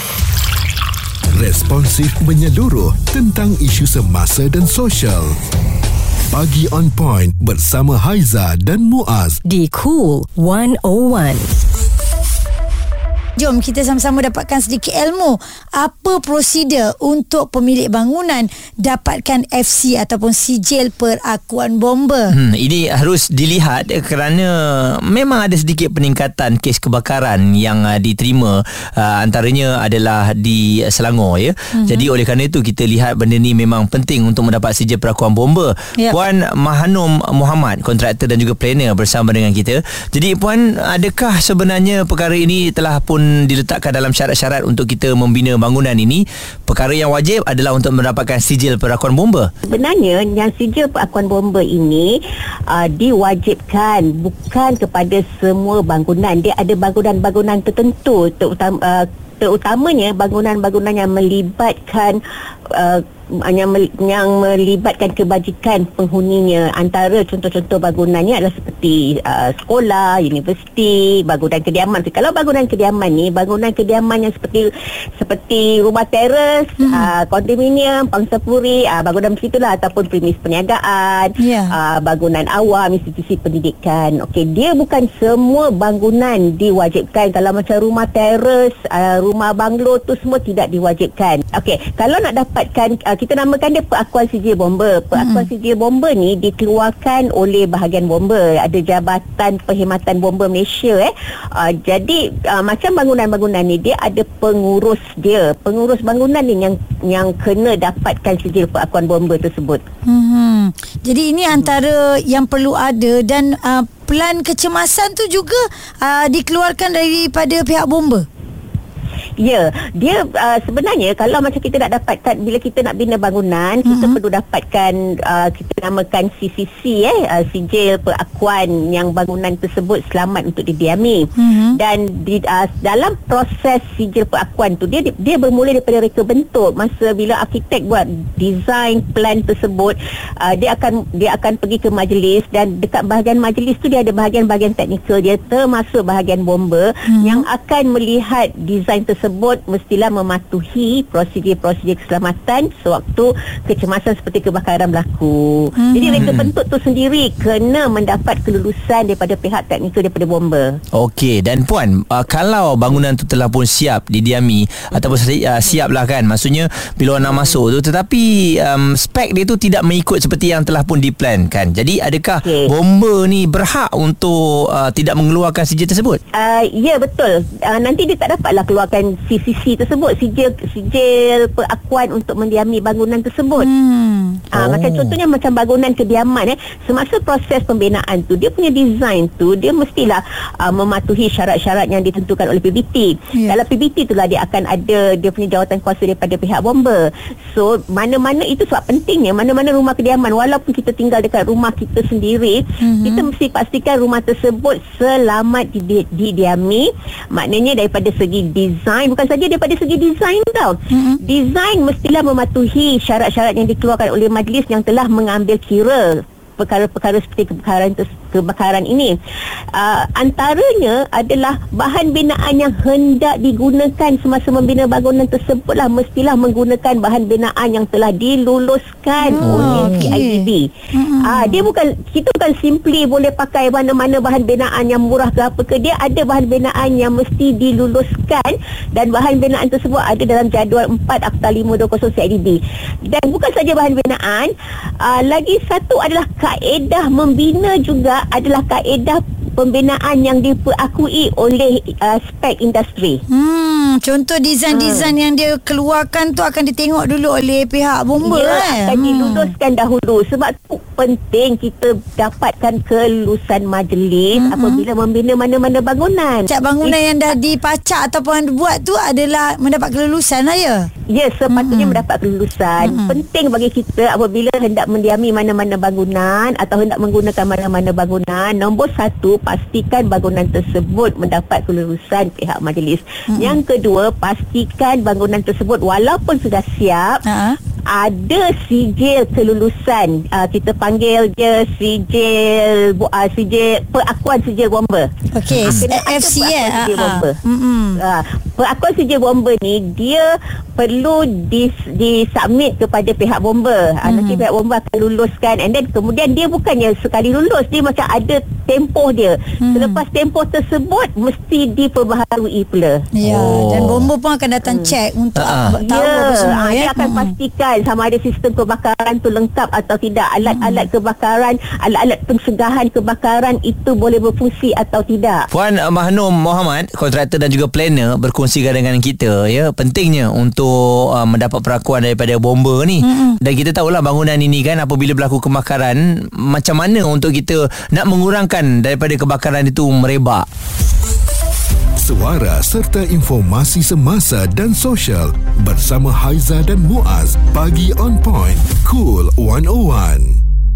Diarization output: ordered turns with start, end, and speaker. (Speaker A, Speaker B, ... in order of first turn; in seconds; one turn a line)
Speaker A: 1.3-5.4
Speaker A: 6.3-9.4
Speaker B: 9.4-11.5
Speaker C: 13.3-22.4
Speaker D: 22.3-49.5
Speaker C: 31.7-32.1
Speaker E: 49.7-62.2
Speaker E: 62.7-109.8
Speaker C: 76.8-77.1
Speaker C: 81.4-81.7
Speaker C: 95.1-95.5
Speaker C: 110.0-118.2
Speaker E: 119.4-160.8
Speaker C: 123.8-124.2
Speaker C: 131.4-131.8
Speaker C: 147.1-147.4
Speaker C: 155.8-156.3
Speaker D: 156.1-156.5
Speaker D: 160.9-176.2
Speaker E: 167.2-167.6
Speaker E: 176.3-183.7
Speaker C: 183.6-184.4
Speaker E: 184.5-219.2
Speaker D: 184.6-185.2
Speaker C: 193.3-193.6
Speaker C: 202.8-203.2
Speaker C: 210.9-211.2
Speaker E: 219.7-230.7
Speaker C: 229.2-231.6
Speaker D: 229.4-230.1
Speaker E: 231.2-253.2
Speaker C: 253.3-259.5
Speaker E: 254.7-255.1
Speaker E: 258.2-267.0
Speaker C: 264.4-264.8
Speaker C: 266.5-270.9
Speaker E: 271.1-287.2
Speaker C: 271.5-272.0
Speaker C: 272.8-273.1
Speaker C: 283.3-283.6
Speaker C: 287.2-287.6
Speaker E: 287.9-295.1
Speaker C: 295.3-298.0
Speaker D: 295.5-295.8
Speaker E: 295.6-297.4
Speaker E: 298.0-313.0
Speaker C: 304.0-304.4
Speaker C: 309.6-310.0
Speaker C: 313.1-317.3
Speaker D: 313.2-314.1
Speaker D: 315.4-315.7
Speaker E: 315.7-325.4
Speaker C: 320.4-320.9
Speaker D: 325.5-340.5
Speaker C: 333.0-333.4
Speaker A: 342.0-350.4